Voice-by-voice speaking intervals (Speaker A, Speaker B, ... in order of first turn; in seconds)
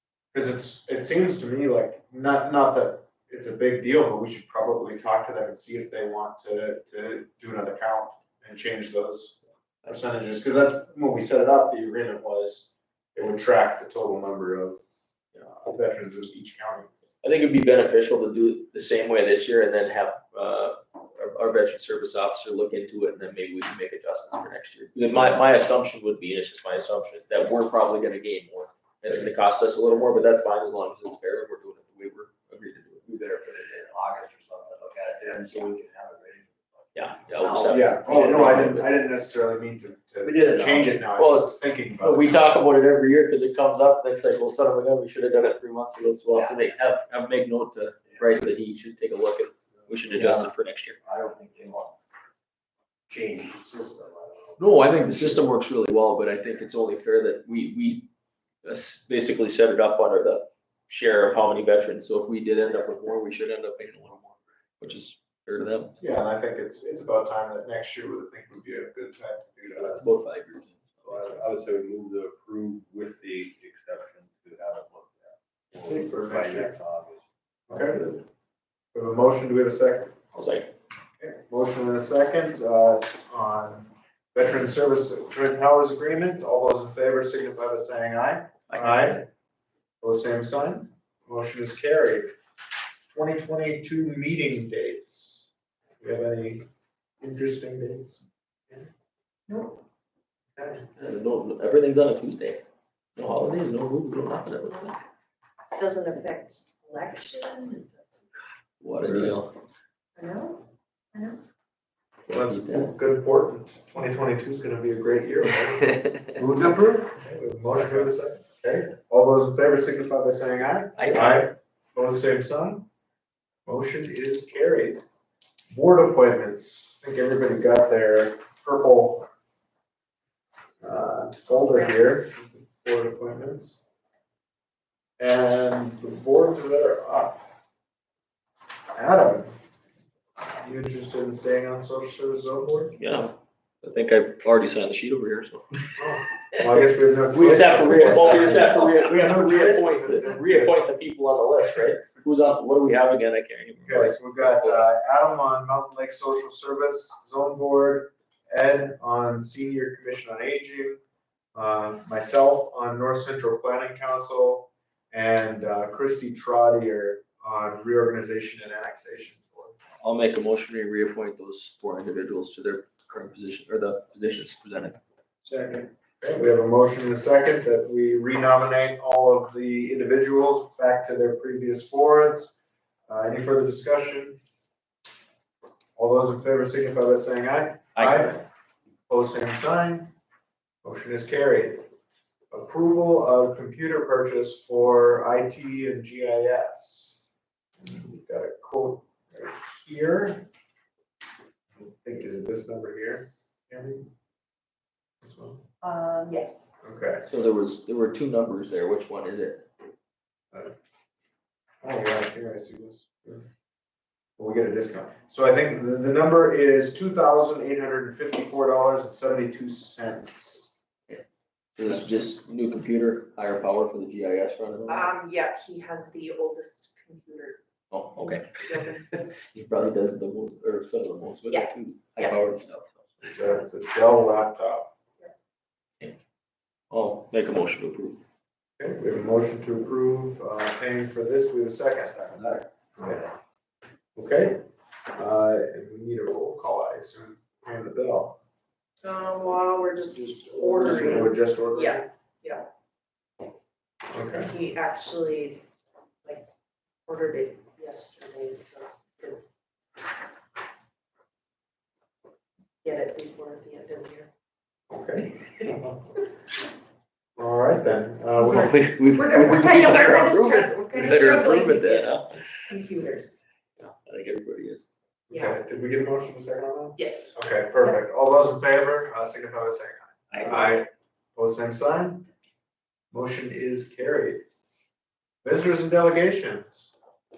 Speaker A: 0.3-14.8, 15.3-16.9, 37.7-42.5, 66.0-70.1, 75.8-76.8, 77.7-78.2, 78.9-80.2, 81.2-89.2, 90.0-92.3, 93.1-96.7, 97.2-98.9, 100.6-100.9, 112.3-122.9, 123.7-125.0, 125.7-129.3, 130.8-133.8, 135.2-137.4, 138.9-139.5, 140.6-143.0, 146.0-150.8, 153.8-161.0, 161.5-169.8, 175.4-182.5, 183.1-184.4, 186.0-188.4, 189.1-190.1, 190.8-191.9, 192.5-197.2, 197.8-200.5, 201.8-204.1, 205.2-205.6, 206.8-207.2, 211.8-213.5, 214.4-220.7, 233.3-234.9, 238.8-243.3, 244.2-248.4, 250.6-252.1, 254.1-254.5, 264.9-266.0, 267.4-268.8, 275.3-282.3, 283.1-284.4, 285.4-286.9
Speaker B: 17.2-33.0, 37.0-38.9, 41.1-51.0, 54.6-58.1, 58.6-66.0, 69.7-71.0, 80.3-80.7, 88.7-89.2, 101.0-102.6, 103.2-105.0, 108.8-109.5, 112.3-112.9, 121.0-121.5, 143.0-145.9, 147.3-154.8, 170.0-175.0, 187.9-188.4, 207.2-209.7, 221.8-225.1, 227.9-233.4, 236.9-238.2, 268.4-272.4, 273.8-274.9, 280.3-280.8
Speaker C: 33.1-38.4, 40.2-40.9, 50.1-52.0, 53.1-54.6
Speaker D: 71.0-77.2
Speaker E: 99.5-99.8, 105.8-108.3, 110.2-111.4, 205.8-206.7, 224.9-227.6, 228.2-229.4, 231.5-232.4, 233.3-233.6, 249.0-252.7, 254.4-255.6, 256.2-256.5, 257.1-259.4, 262.8-264.3, 269.0-272.1, 272.7-273.4, 275.3-275.6, 277.0-277.4